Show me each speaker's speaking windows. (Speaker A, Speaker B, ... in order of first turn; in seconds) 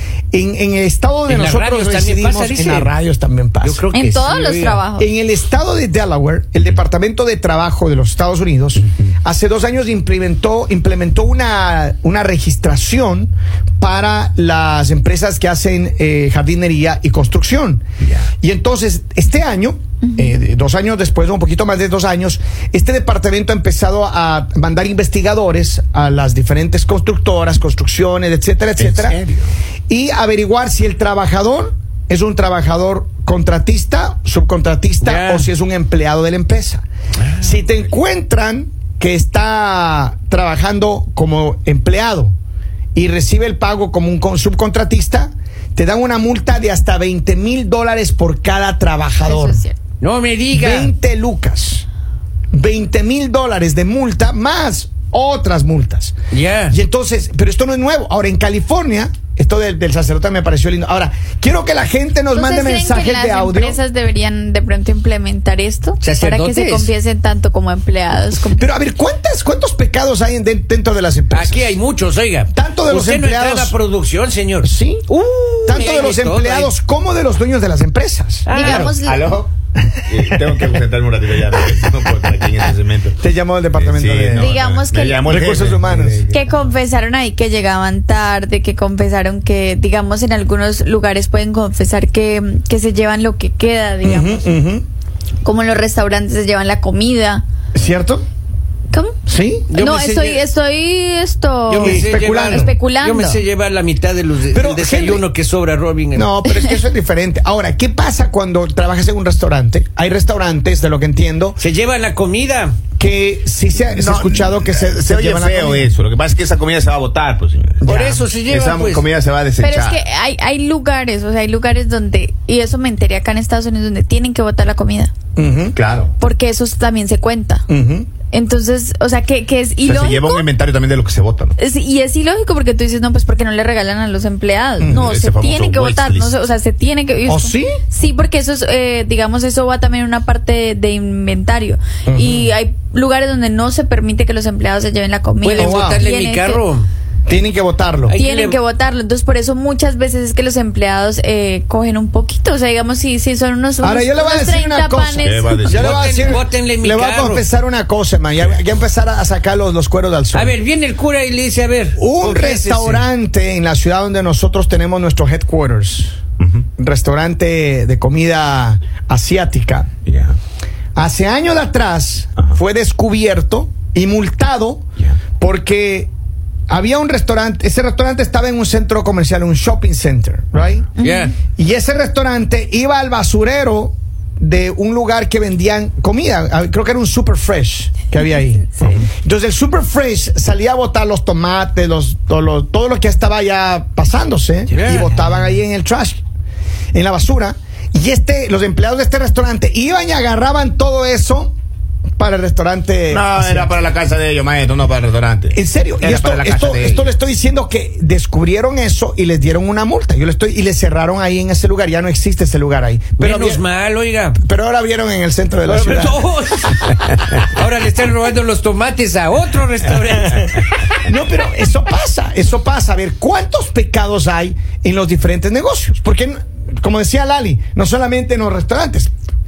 Speaker A: 0.3-3.9, 5.0-17.8, 18.4-29.2, 29.9-36.8, 37.4-42.3, 42.9-49.6, 50.5-51.9, 52.5-56.1, 56.7-63.8, 68.5-71.8, 72.5-73.8, 74.6-75.0, 75.7-78.5, 80.0-80.8, 81.5-84.5, 85.2-86.2, 94.0-94.8, 97.7-98.2, 99.2-99.7, 101.8-102.7, 104.5-105.2, 106.1-111.6, 113.0-115.9, 117.8-118.2, 125.3-125.8, 127.7-128.1, 134.8-135.0, 137.2-137.8, 142.1-142.5, 145.6-146.0, 147.3-148.2, 153.8-160.6, 162.0-166.2, 166.8-169.9, 170.9-174.8, 175.4-176.1, 176.7-180.9, 181.5-196.2, 196.9-201.5, 202.2-203.7, 205.5-213.6, 214.4-216.2, 220.3-229.1
Speaker B: 1.3-2.9, 3.6-4.8, 35.0-35.5, 37.2-37.5, 50.0-50.9, 56.3-56.8, 66.0-66.9, 71.3-76.7, 78.5-78.9, 99.7-100.4, 101.7-106.3, 111.6-112.8, 117.8-119.0, 145.4-146.9, 148.1-148.6, 155.7-157.4, 160.3-163.1, 181.0-181.3, 194.7-195.1, 213.2-214.4, 215.7-221.0
Speaker C: 3.9-5.1, 20.0-20.4, 49.2-49.8, 62.3-68.7, 78.5-79.3, 84.3-85.2, 86.3-94.4, 95.4-97.4, 99.7-103.4, 119.6-125.1, 126.2-127.6, 128.3-130.5, 131.6-146.6, 148.2-155.6, 181.0-181.3
Speaker D: 28.8-29.5, 78.5-79.5, 80.1-83.2, 83.7-86.5, 113.8-120.0, 125.7-126.1, 129.8-131.6, 134.8-136.3, 155.2-156.4, 170.1-170.3, 188.8-189.0, 203.1-207.1